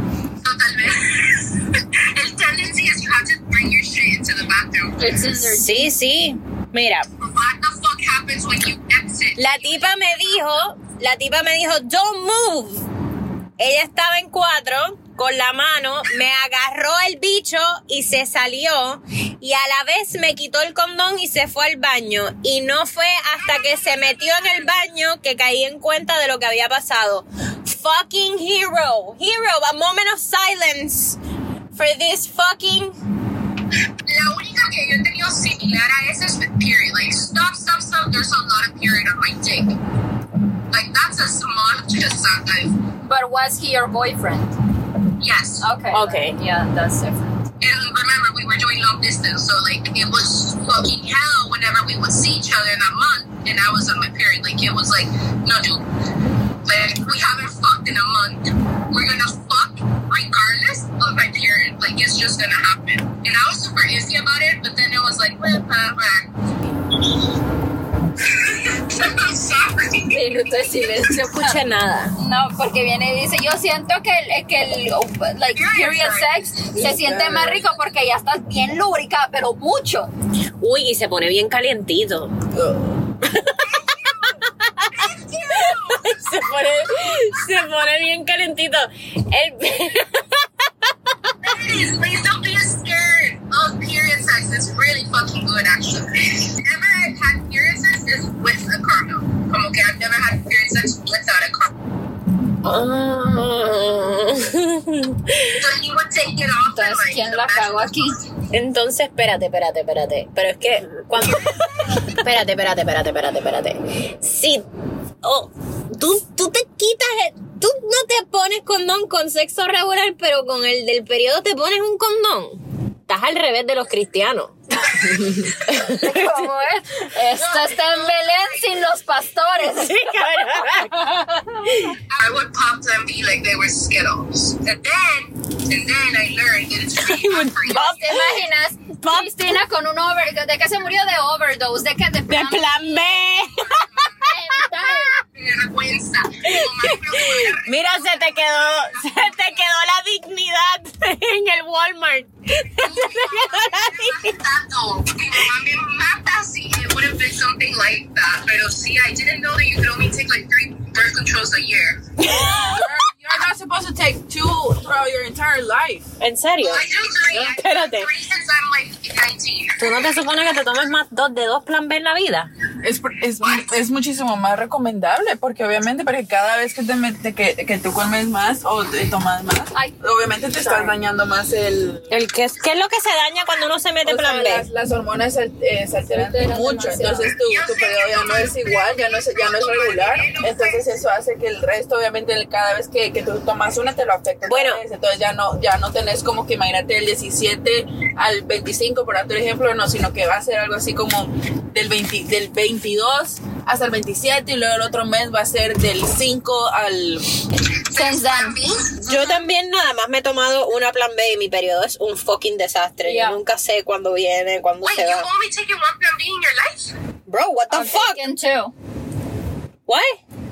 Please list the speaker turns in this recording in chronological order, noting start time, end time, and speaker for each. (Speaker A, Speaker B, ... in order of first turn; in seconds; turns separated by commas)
Speaker A: 0.4-5.2, Speaker B: 5.0-5.9, Speaker C: 5.3-7.1, Speaker A: 7.2-10.3, Speaker C: 9.4-12.8, Speaker C: 13.6-31.2, Speaker A: 23.4-24.8, Speaker C: 31.7-33.0, Speaker A: 34.0-39.8, Speaker A: 40.7-42.8, Speaker B: 43.0-44.6, Speaker A: 45.2-45.7, Speaker B: 45.6-47.4, Speaker C: 45.9-46.4, Speaker A: 47.6-55.8, Speaker A: 56.6-66.3, Speaker A: 68.2-70.5, Speaker B: 70.1-71.6, Speaker C: 71.2-72.2, Speaker B: 72.2-80.1, Speaker A: 75.5-76.5, Speaker D: 76.7-77.6, Speaker C: 80.6-82.3, Speaker D: 82.5-83.1, Speaker C: 83.3-83.6, Speaker A: 83.6-87.5, Speaker C: 84.6-91.3, Speaker A: 91.4-101.7, Speaker C: 102.6-105.6, Speaker A: 105.5-108.1, Speaker B: 106.7-108.2, Speaker C: 108.5-114.7, Speaker A: 111.2-112.0, Speaker C: 115.2-126.5, Speaker B: 125.7-131.9, Speaker A: 127.3-128.8, Speaker C: 129.6-132.0, Speaker A: 132.1-138.0, Speaker C: 137.0-138.4, Speaker B: 137.7-142.9, Speaker C: 139.0-139.3, Speaker C: 142.3-145.2, Speaker A: 142.9-144.3, Speaker B: 144.2-145.2, Speaker A: 145.2-149.7, Speaker C: 146.4-154.4, Speaker A: 152.8-162.0, Speaker C: 162.2-162.9, Speaker D: 162.7-166.1, Speaker C: 166.2-168.1, Speaker A: 166.6-170.0, Speaker C: 169.8-172.5, Speaker D: 172.8-182.1, Speaker A: 173.4-173.7, Speaker B: 180.6-181.0, Speaker C: 182.1-184.7, Speaker D: 184.0-207.3, Speaker B: 186.1-187.3, Speaker A: 187.4-191.0, Speaker C: 194.5-194.8, Speaker A: 207.9-209.0, Speaker B: 207.9-209.4, Speaker C: 209.0-215.3, Speaker B: 213.1-213.4, Speaker A: 214.8-216.9, Speaker C: 217.3-218.2, Speaker B: 217.7-218.7, Speaker C: 219.9-220.2